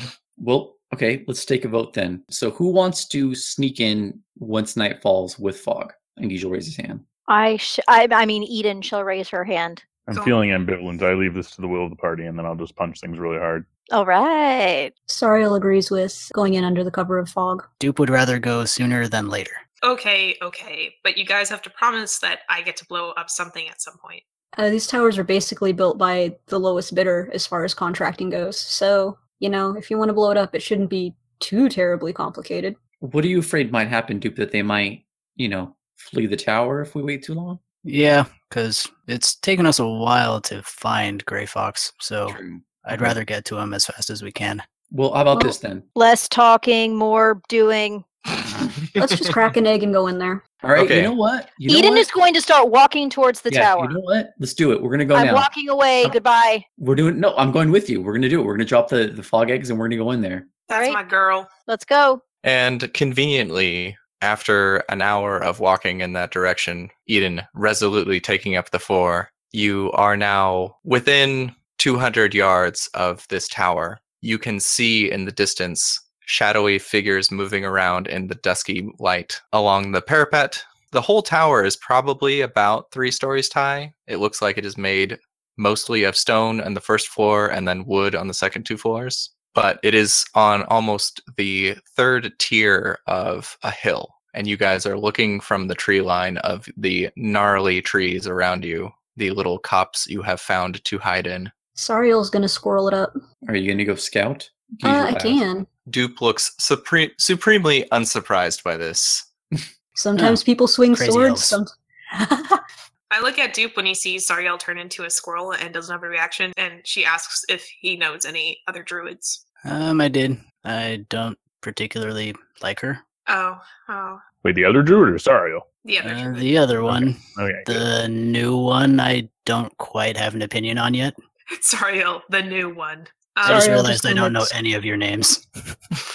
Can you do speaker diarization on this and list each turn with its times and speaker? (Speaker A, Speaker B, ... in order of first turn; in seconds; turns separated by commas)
Speaker A: 0.4-7.0, Speaker B: 7.3-9.8, Speaker C: 10.1-13.7, Speaker D: 10.1-10.4, Speaker B: 13.9-14.9, Speaker E: 15.1-17.7, Speaker F: 17.8-19.6, Speaker D: 19.8-24.2, Speaker E: 24.6-32.8, Speaker A: 33.0-37.6, Speaker F: 37.9-44.6, Speaker A: 42.4-43.1, Speaker A: 44.9-45.9, Speaker B: 46.0-48.0, Speaker E: 49.0-50.4, Speaker A: 50.6-52.1, Speaker G: 50.8-51.1, Speaker B: 51.7-54.0, Speaker A: 53.5-55.5, Speaker B: 55.1-56.6, Speaker A: 56.8-60.5, Speaker D: 60.7-61.5, Speaker B: 60.7-61.0, Speaker B: 61.7-62.2, Speaker G: 62.4-101.5, Speaker E: 101.8-103.1, Speaker A: 103.4-105.4, Speaker E: 104.8-105.7, Speaker G: 105.9-109.3, Speaker E: 110.0-112.6, Speaker F: 110.9-111.6, Speaker D: 113.1-119.4, Speaker F: 119.7-123.0, Speaker D: 123.3-124.2, Speaker C: 124.4-125.7, Speaker D: 125.8-126.6, Speaker F: 126.0-131.2, Speaker C: 126.9-127.8, Speaker D: 131.5-133.7, Speaker F: 133.4-135.4, Speaker E: 133.5-134.5